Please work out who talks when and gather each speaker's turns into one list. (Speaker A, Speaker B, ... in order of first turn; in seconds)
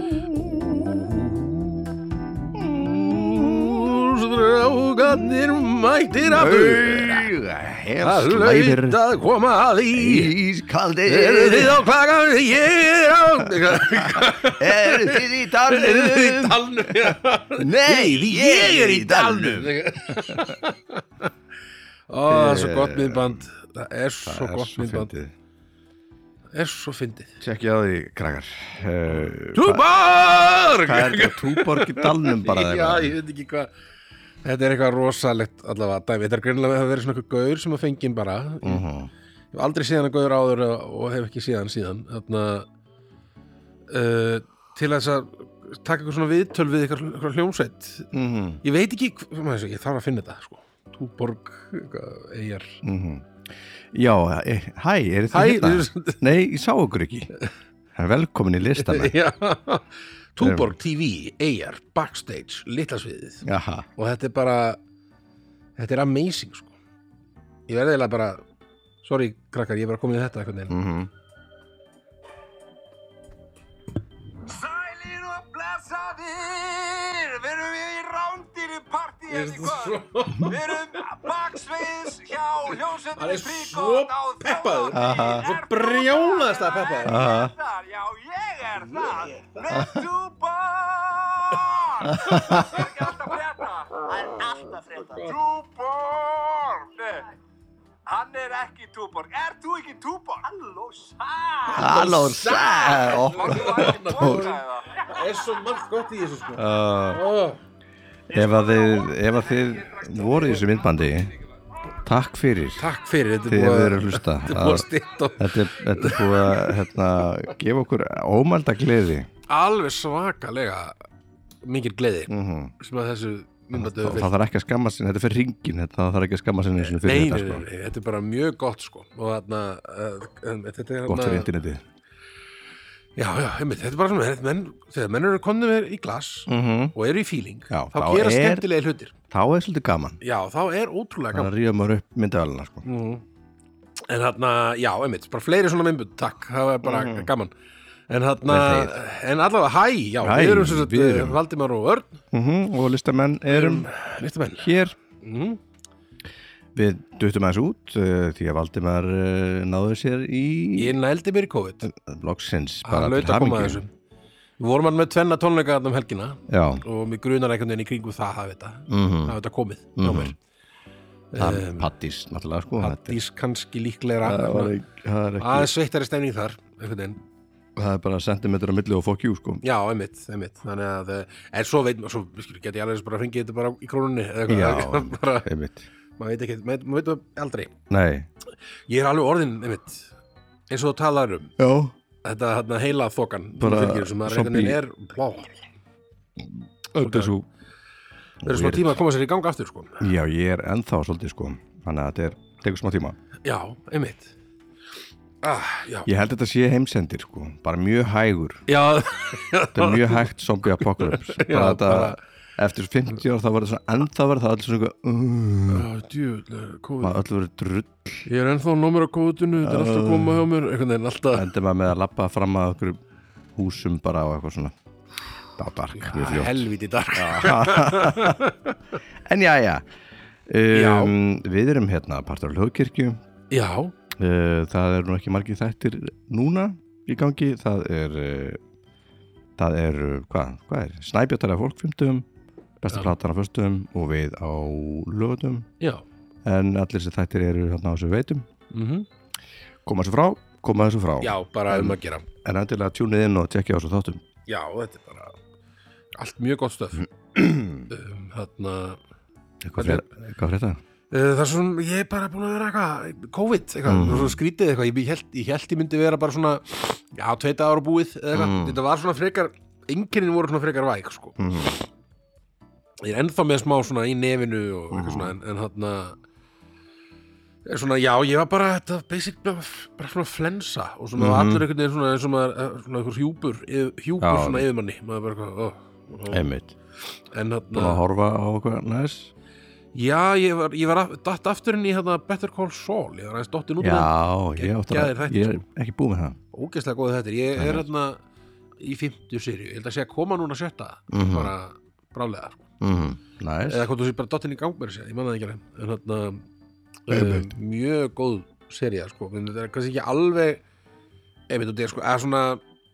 Speaker A: 0.6-7.3, 8.0-10.3, 11.1-21.3, 22.1-25.1, 26.5-27.4, 29.5-33.7, 34.4-38.9, 39.5-42.7, 43.9-48.1, 48.6-52.8, 55.3-56.2, 58.8-64.8, 65.8-66.8, 67.7-68.4, 69.0-70.7, 79.3-81.0, 83.2-87.2, 88.9-89.6, 92.3-92.8, 94.2-95.3, 101.7-107.6, 112.8-116.8, 119.5-121.0, 121.6-124.3, 126.8-131.5, 133.2-139.1, 140.2-141.5, 142.8-143.2, 144.1-147.5, 148.1-152.2, 153.5-155.6, 160.8-161.9, 162.8-163.9, 164.6-170.3, 171.3-171.9, 172.8-174.8, 175.4-177.2, 179.6-185.5, 186.2-187.7, 188.9-190.1, 190.7-191.5, 192.2-195.7, 196.9-197.3, 198.4-200.1, 203.4-204.3, 205.4-206.1, 208.7-212.2, 215.7-217.2, 218.3-221.5, 225.9-228.8, 230.7-231.1, 233.5-233.9, 248.7-249.1, 251.2-252.3, 254.5-255.4, 256.1-257.1, 257.9-259.0, 259.8-260.1, 261.1-271.4, 273.0-276.2, 277.7-286.5, 287.3-288.0, 289.9-295.6, 296.5-298.2, 298.8-302.7, 303.7-306.4, 307.1-310.6, 311.5-312.6
Speaker B: 6.2-9.0, 9.9-11.9, 13.6-20.5, 22.3-23.5, 24.2-25.3, 27.4-29.9, 30.7-33.1, 38.6-39.1, 48.1-48.6, 52.8-57.3, 58.0-59.1, 60.4-60.7, 63.5-63.9, 70.7-71.1, 84.9-85.5, 87.0-87.5, 92.0-92.8, 101.7-104.5, 106.5-107.2, 108.3-111.3, 112.0-112.9, 113.5-114.9, 115.4-119.3, 122.3-122.7, 123.7-127.7, 131.1-131.8, 136.5-136.9, 137.7-138.7, 139.3-140.2, 141.3-142.9, 146.8-147.3, 148.5-149.0, 150.2-151.4, 152.3-153.9, 154.6-155.0, 156.8-161.0, 161.8-163.8, 166.5-166.8, 168.9-169.4, 170.0-170.3, 171.4-173.2, 174.2-175.7, 177.8-179.6, 184.5-185.9, 187.9-188.3, 191.6-191.9, 193.6-194.8, 196.4-197.5, 198.4-199.0, 200.0-203.2, 206.1-208.6, 209.8-215.9, 217.0-218.3, 219.6-220.5, 221.3-223.0, 223.6-224.7, 225.6-228.4, 229.2-229.9, 230.5-233.2, 234.2-238.6, 239.6-242.3, 242.8-245.7, 246.4-248.5, 249.8-254.2, 257.3-257.9, 259.6-260.8, 263.9-264.4, 268.3-268.8, 271.4-271.8, 274.9-275.3, 281.1-281.7, 284.2-284.7, 286.3-286.7, 287.7-289.3, 293.8-296.4, 297.6-297.9, 301.1-301.5, 302.8-303.9, 307.1-307.5
Speaker C: 74.4-97.3, 98.1-105.1